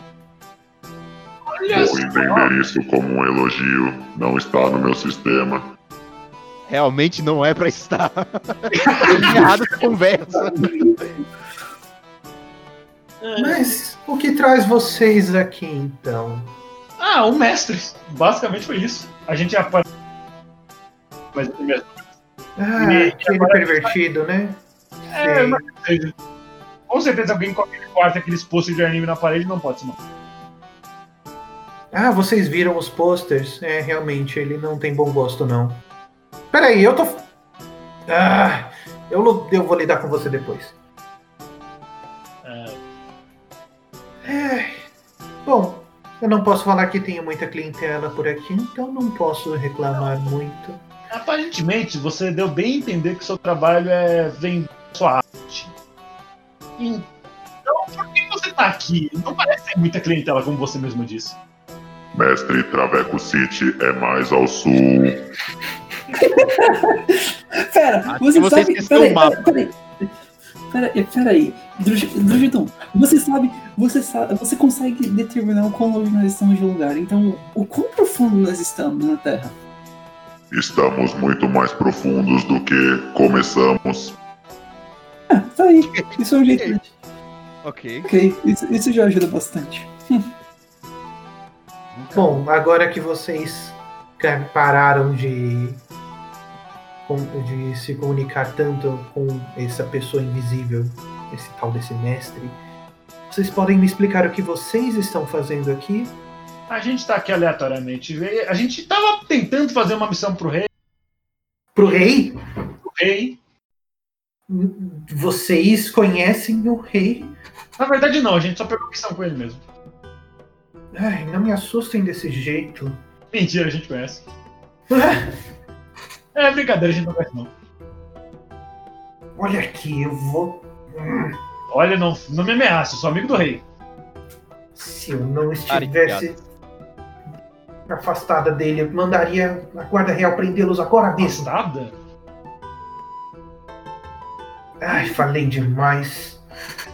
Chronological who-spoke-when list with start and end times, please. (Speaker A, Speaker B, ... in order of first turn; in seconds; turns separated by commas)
Speaker A: 1.5-2.5, Speaker B: 1.7-5.7, Speaker C: 6.7-11.0, Speaker A: 8.7-9.4, Speaker D: 10.5-11.0, Speaker A: 13.2-13.7, Speaker E: 13.4-16.5, Speaker A: 17.0-19.8, Speaker A: 21.3-22.0, Speaker E: 22.6-24.6, Speaker A: 22.8-23.9, Speaker A: 25.1-26.1, Speaker E: 25.2-25.6, Speaker A: 26.9-30.0, Speaker E: 31.9-35.8, Speaker E: 36.5-37.3, Speaker E: 38.1-40.8, Speaker A: 42.4-42.8, Speaker E: 44.2-44.8, Speaker E: 45.4-50.8, Speaker A: 51.1-55.8, Speaker A: 56.8-57.1, Speaker A: 57.6-61.4, Speaker B: 62.1-65.2, Speaker D: 66.1-69.8, Speaker C: 68.1-69.5, Speaker D: 70.7-79.5, Speaker B: 80.5-84.2, Speaker D: 85.3-86.9, Speaker C: 85.9-86.8, Speaker C: 87.6-88.1, Speaker D: 88.0-90.2, Speaker E: 92.1-95.8, Speaker E: 97.1-102.6, Speaker E: 103.3-106.1, Speaker A: 106.7-110.7, Speaker E: 111.7-112.4, Speaker A: 112.8-113.4, Speaker E: 114.5-117.3, Speaker A: 117.8-119.6, Speaker E: 120.9-123.0, Speaker A: 123.3-124.2, Speaker E: 124.9-125.3, Speaker A: 126.3-127.5, Speaker E: 129.3-131.3, Speaker A: 131.7-133.6, Speaker E: 134.7-136.4, Speaker C: 135.7-136.4, Speaker E: 137.9-141.5, Speaker A: 141.2-141.9, Speaker E: 144.8-146.4